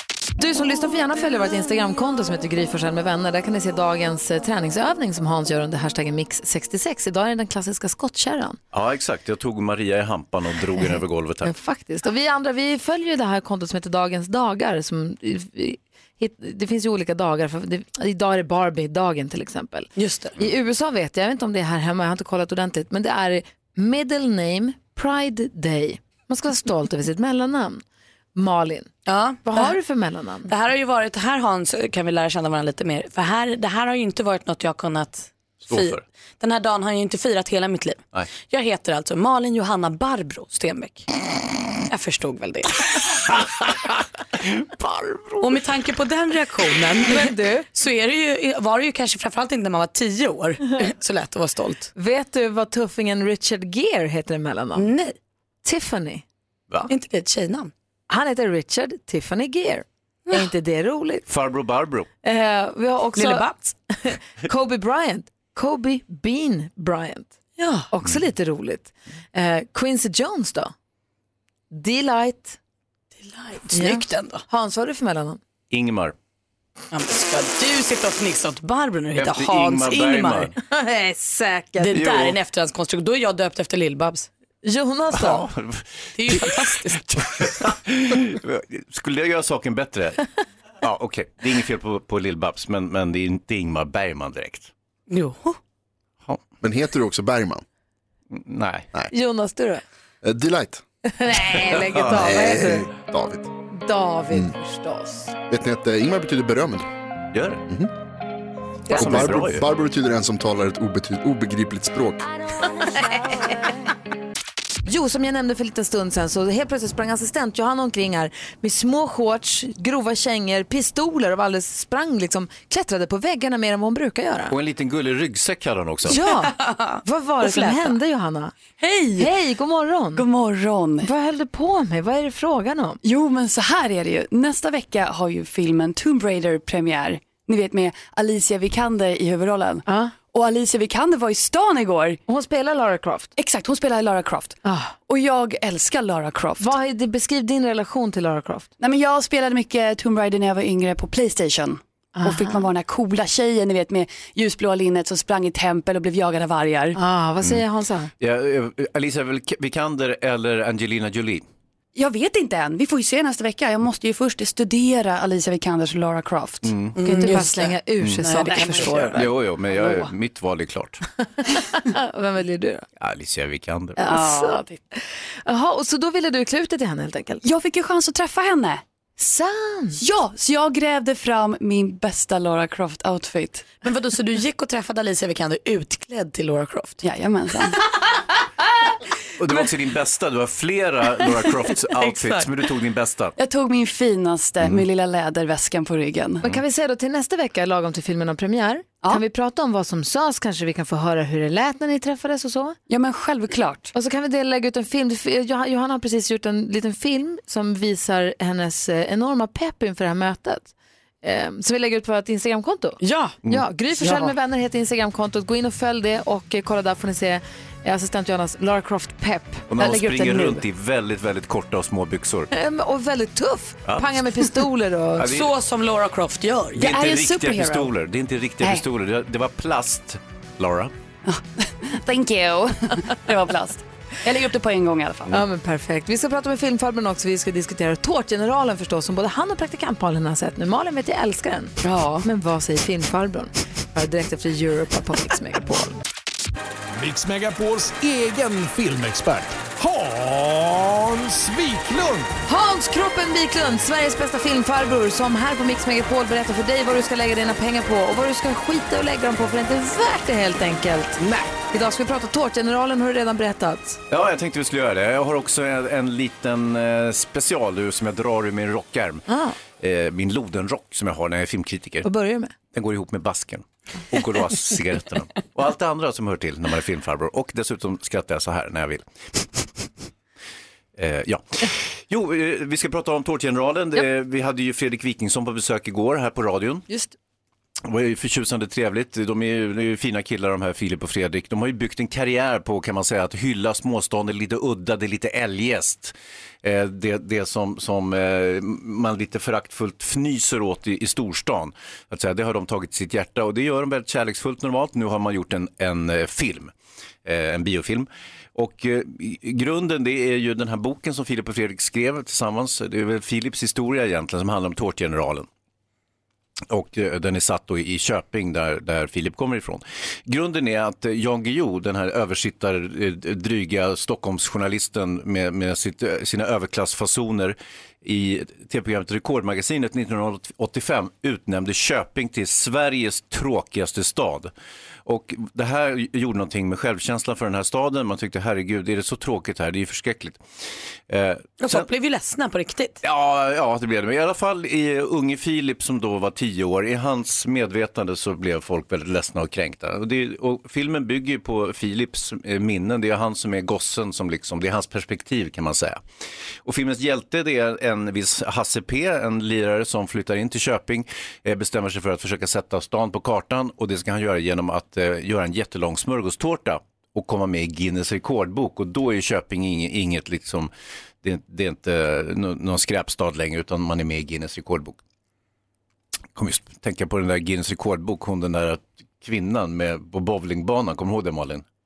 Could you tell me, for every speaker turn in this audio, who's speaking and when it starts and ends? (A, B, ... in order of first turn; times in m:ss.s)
0:00.4-0:08.6 A
0:08.7-0:11.5 B
0:11.4-0:27.8 A
0:20.0-0:20.4 C
0:28.3-0:28.9 A
0:29.0-0:29.8 C
0:29.4-0:30.5 A
0:30.5-0:41.1 C
0:35.6-0:36.0 B
0:41.9-0:43.0 C
0:44.6-0:45.5 B
0:45.4-0:51.9 C
0:47.0-0:47.7 A
0:52.0-0:54.9 A
0:54.8-0:55.1 C
0:55.6-0:56.2 A
0:56.9-0:57.7 C
0:58.1-1:01.2 A
1:01.3-1:02.1 B
1:02.2-1:07.3 A
1:03.2-1:03.5 C
1:07.6-1:07.8 C
1:07.9-1:10.7 A
1:11.7-1:12.6 A
1:13.2-1:14.4 C
1:13.7-1:15.4 A
1:15.7-1:16.2 B
1:16.9-1:20.5 C
1:19.2-1:20.5 B
1:20.6-1:22.0 A
1:21.8-1:24.3 C
1:21.9-1:22.4 B
1:24.6-1:25.5 A
1:25.1-1:30.2 B
1:26.2-1:27.2 C
1:30.8-1:34.7 B
1:35.1-1:35.6 C
1:36.6-1:37.6 D
1:38.3-1:38.9 B
1:39.1-1:39.8 A
1:40.2-1:40.8 D
1:41.0-1:42.9 A
1:41.7-1:42.5 B
1:42.1-1:43.5 D
1:43.7-1:45.3 A
1:45.5-1:46.9 D
1:47.3-1:47.6 B
1:48.9-1:49.4 A
1:48.9-1:49.7 B
1:48.9-1:52.2 D
1:52.7-1:53.7 A
1:54.8-2:04.5 A
2:04.5-2:06.2 B
2:06.1-2:08.6 A
2:06.2-2:06.7 C
2:07.4-2:08.0 C
2:08.8-2:09.3 E
2:09.2-2:10.2 A
2:10.1-2:11.1 E
2:11.0-2:13.0 A
2:13.0-2:22.2 E
2:19.9-2:20.1 A
2:22.3-2:23.3 A
2:23.4-2:26.7 E
2:24.6-2:24.9 A
2:26.6-2:28.7 A
2:28.8-2:37.0 E
2:32.2-2:32.6 A
2:36.9-2:38.1 A
2:38.2-2:41.4 B
2:41.9-2:47.7 E
2:46.6-2:47.0 B
2:47.0-2:49.1 C
2:47.0-2:49.2 A
2:48.2-2:49.2 E
2:49.1-2:51.0 B
2:51.4-2:52.8 A
2:53.0-2:54.0 B
2:54.0-2:54.8 E
2:54.0-2:57.4 A
2:57.4-2:58.8 E
2:59.2-3:00.0 A
3:00.0-3:03.8 E
3:03.8-3:07.0 C
3:07.0-3:07.8 E
3:09.4-3:13.3 B
3:12.0-3:12.4 C
3:13.4-3:16.4 E
3:16.4-3:22.8 A
3:22.9-3:23.9 E
3:23.9-3:30.7 A
3:31.2-3:40.6 A
3:39.7-3:42.5 B
3:42.5-3:45.3 A
3:43.8-3:44.2 B
3:45.2-3:45.5 B
3:45.2-3:46.9 C
3:46.8-3:50.9 B
3:46.8-3:47.9 E
3:51.2-3:55.4 E
3:55.3-4:06.0 A
4:01.8-4:02.2 E
4:07.0-4:12.3 F
4:12.5-4:24.0 A
4:24.1-4:32.1 B
4:29.3-4:29.6 A
4:32.0-4:32.5 A
4:32.7-4:39.0 B
4:41.0-4:46.9 B
4:47.8-5:06.7 B
5:07.2-5:15.5 B
5:16.7-5:34.5 B
5:35.0-5:40.4 B
5:41.1-5:41.9 B
5:41.6-5:43.0 C
5:43.0-5:56.0 B
5:56.6-6:10.7 B
6:11.2-6:15.0 B
6:16.3-6:21.6 B